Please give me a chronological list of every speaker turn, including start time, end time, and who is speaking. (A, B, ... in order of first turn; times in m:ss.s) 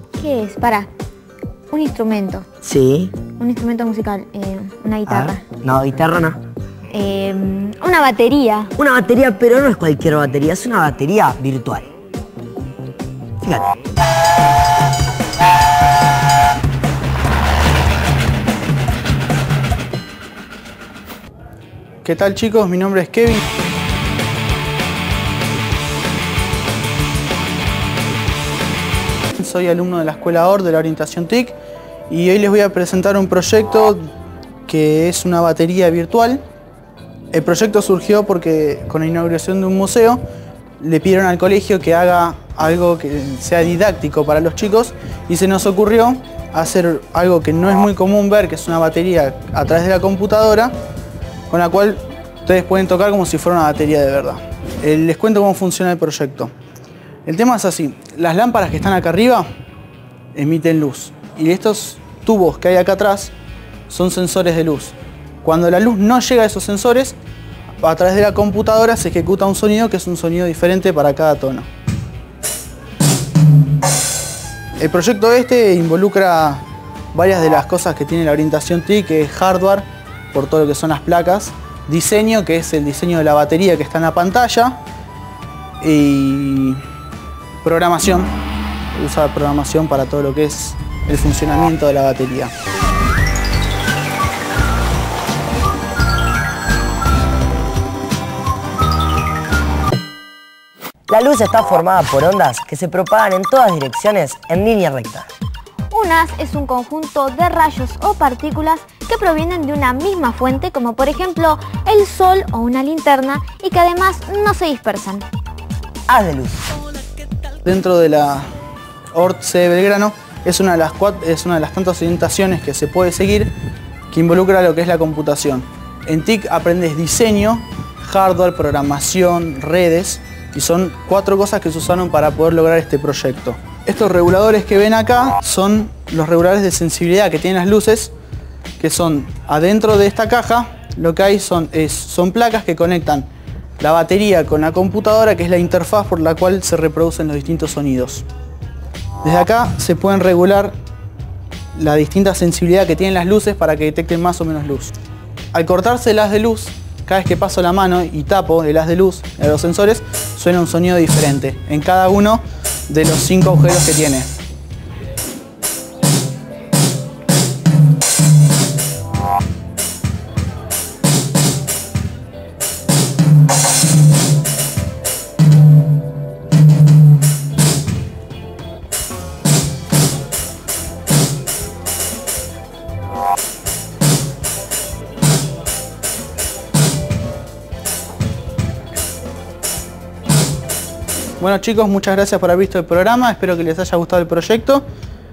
0:00.2-0:00.9 A
0:01.7-0:02.4 A
0:02.6-0:03.2 B
0:03.3-0:05.4 A
0:05.1-0:06.4 B
0:06.9-0:08.7 A
0:08.8-0:11.9 B
0:13.4-0:13.8 B
0:22.0-0:23.4 C
0:29.4-0:31.5 C
0:32.1-0:34.1 C
0:34.6-0:36.4 C
0:37.3-0:40.2 C
0:40.8-0:50.7 C
0:51.5-0:56.5 C
0:57.2-0:59.4 C
1:00.3-1:03.3 C
1:03.9-1:07.1 C
1:07.8-1:11.7 C
1:14.8-1:24.8 C
1:25.8-1:26.8 C
1:27.6-1:28.3 C
1:28.9-1:32.5 C
1:41.1-1:45.3 B
1:45.9-1:55.2 A
1:56.1-1:56.6 B
1:57.6-1:58.5 C
1:59.1-2:03.5 C
2:04.1-2:18.1 C
2:18.8-2:23.3 C
2:23.8-2:28.2 C
2:29.2-2:30.7 C
2:31.7-2:34.9 C
2:35.5-2:44.4 C
3:11.4-3:14.8 C